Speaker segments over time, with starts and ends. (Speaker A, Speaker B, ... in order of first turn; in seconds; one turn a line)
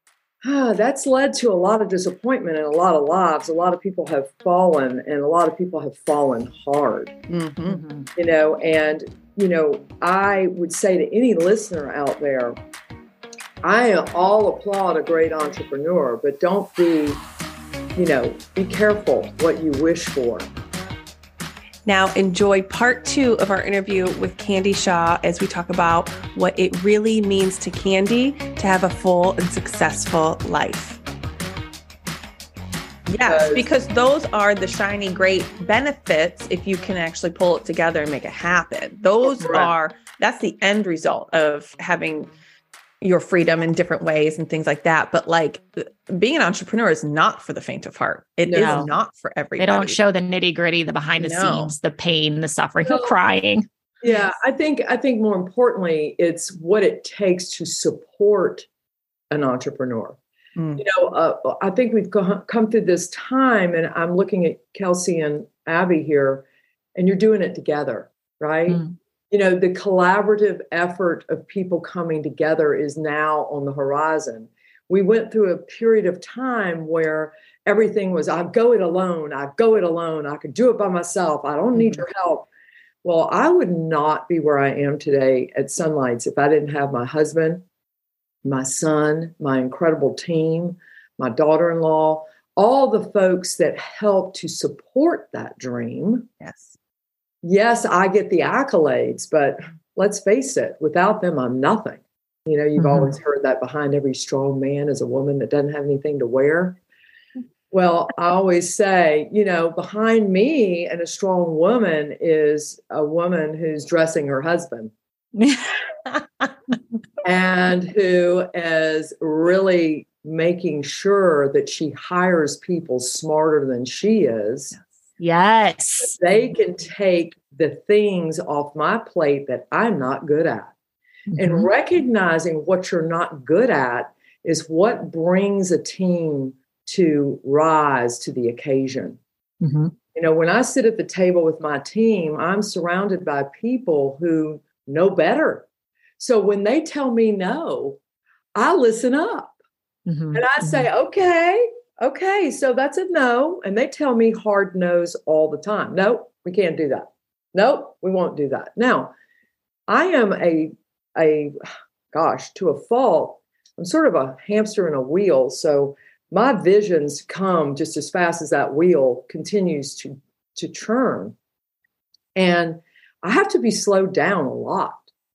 Speaker A: 0.4-7.1
Speaker B: 7.3-7.8
Speaker C: 7.7-8.1
Speaker A: 8.2-12.6
Speaker A: 13.6-17.2
Speaker A: 17.9-20.5
Speaker B: 21.9-31.0
Speaker B: 33.1-42.3
Speaker A: 33.2-33.7
Speaker A: 39.4-39.7
Speaker B: 43.0-50.0
Speaker A: 48.5-48.9
Speaker C: 48.5-48.9
Speaker C: 49.6-53.6
Speaker B: 51.2-51.7
Speaker A: 52.8-53.2
Speaker A: 54.0-58.7
Speaker A: 59.3-60.2
Speaker B: 60.5-60.8
Speaker A: 60.8-82.5
Speaker C: 68.7-68.9
Speaker A: 83.0-87.6
Speaker A: 88.4-96.3
Speaker B: 96.4-96.7
Speaker A: 97.4-106.8
Speaker A: 107.7-114.9
Speaker C: 115.4-115.8
Speaker A: 117.2-124.8
Speaker C: 125.2-126.1
Speaker A: 126.0-130.7
Speaker C: 131.3-131.7
Speaker A: 131.3-139.2
Speaker C: 139.6-139.9
Speaker A: 140.1-145.7
Speaker A: 146.2-148.0
Speaker A: 148.5-149.6
Speaker C: 150.1-150.9
Speaker A: 150.3-159.1
Speaker A: 159.9-171.3
Speaker A: 172.3-175.1